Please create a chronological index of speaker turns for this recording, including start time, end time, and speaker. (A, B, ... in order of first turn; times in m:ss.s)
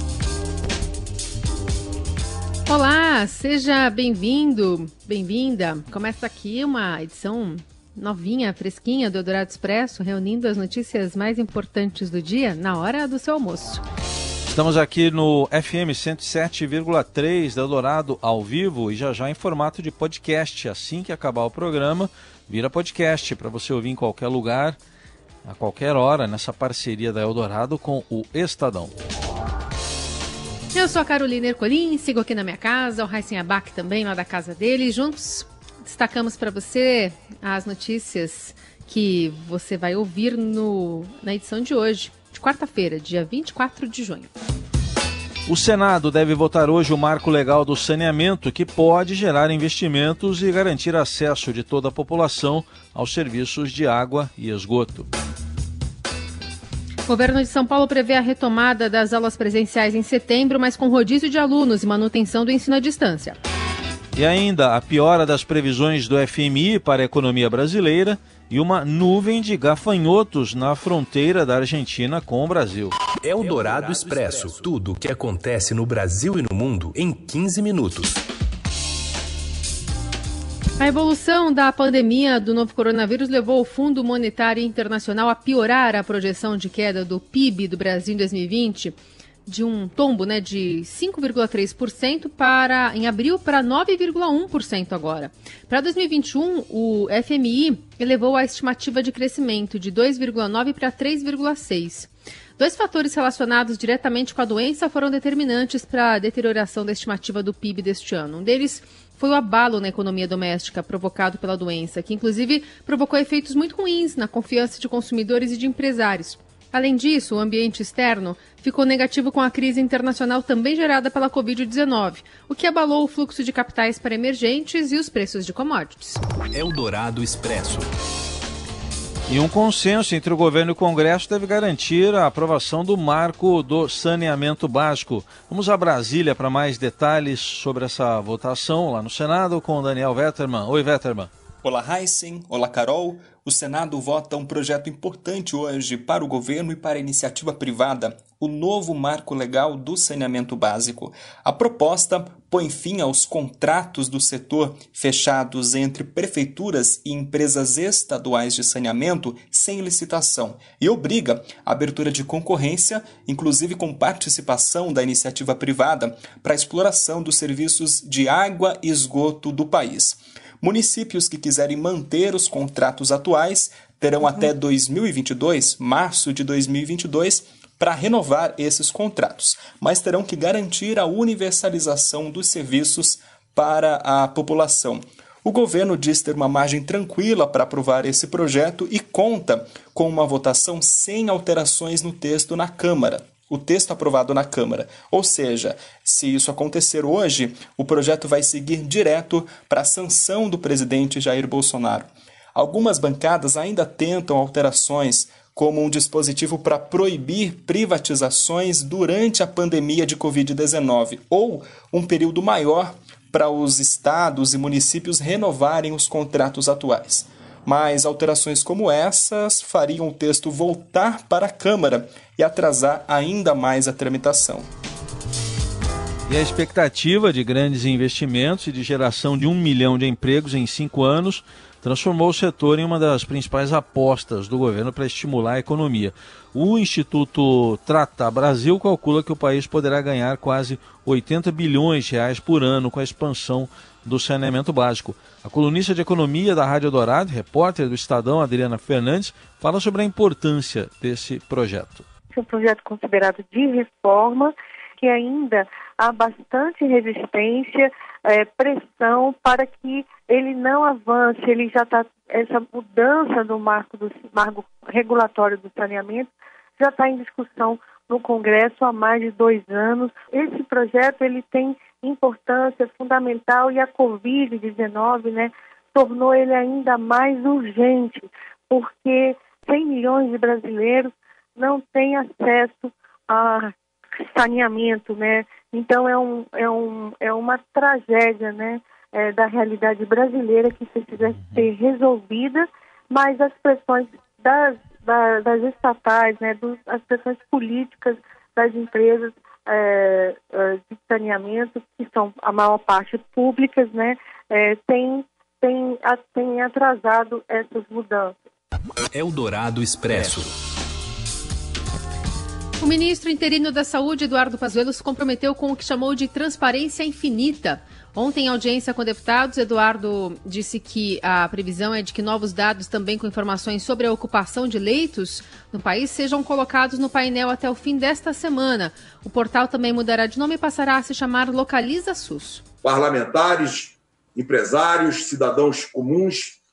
0:02.7-0:13.8 A
0:14.5-0:24.8 B
0:25.4-0:28.9 B
0:30.7-0:44.3 A
0:45.5-0:55.1 B
0:57.1-1:03.4 A
1:04.1-1:12.9 B
1:13.2-1:18.2 C
1:20.8-2:06.2 A
2:06.5-2:07.9 C
2:09.3-2:21.3 B
2:21.6-3:44.7 D
3:46.3-4:12.0 B
4:12.3-5:08.3 E
4:51.3-4:51.6 B
5:09.1-5:10.5 C
5:12.8-5:32.6 A
5:32.8-5:36.6 F